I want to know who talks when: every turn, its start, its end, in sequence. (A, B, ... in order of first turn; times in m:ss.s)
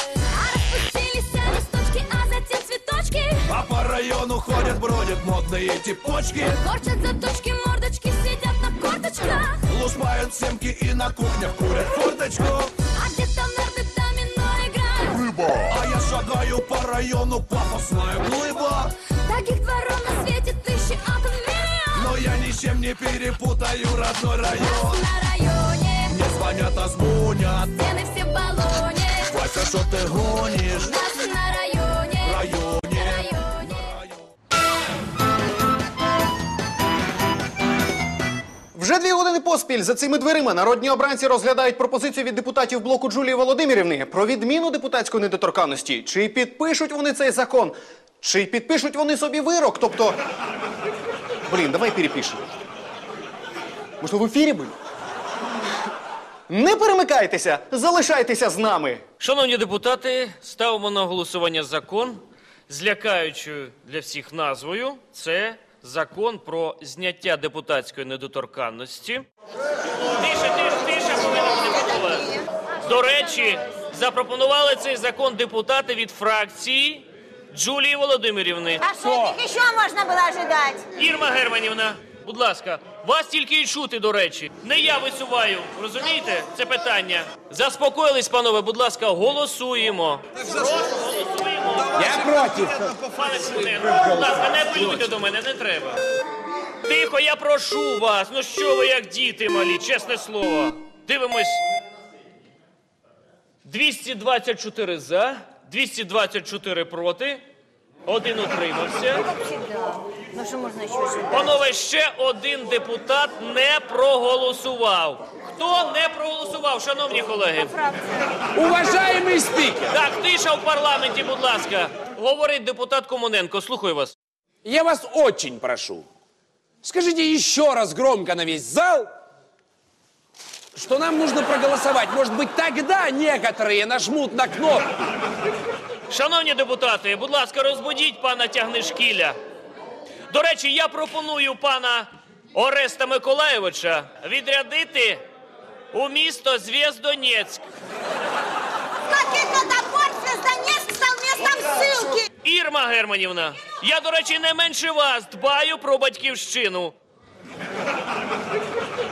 0:00.3-0:03.4 A
0:03.5-0:06.6 B
0:06.6-0:09.6 A
0:09.7-0:12.8 B
0:12.9-0:15.4 A
0:15.6-0:19.0 B
0:19.1-0:22.1 A
0:21.9-0:25.1 B
0:24.6-0:26.1 A
0:26.0-0:27.8 B
0:27.8-0:29.3 A
0:29.2-0:31.0 B
0:30.8-0:32.4 A
0:32.2-0:34.2 B
0:32.9-0:33.7 A
0:38.7-0:50.2 C
0:51.4-0:52.4 C
0:54.0-0:54.8 C
0:56.5-0:59.0 C
0:59.2-1:09.2 D
1:10.2-1:19.2 D
1:19.0-1:20.8 E
1:21.0-1:36.0 D
1:36.8-1:41.6 D
1:43.6-1:47.4 D
1:48.1-1:49.4 D
1:51.2-1:57.9 D
1:58.7-1:59.8 F
1:59.8-2:04.1 D
2:04.7-2:06.0 F
2:07.0-2:09.1 F
2:10.8-2:14.6 F
2:16.1-2:19.4 D
2:20.3-2:25.2 D
2:25.9-2:27.6 D
2:29.1-2:32.2 E
2:32.4-2:36.9 D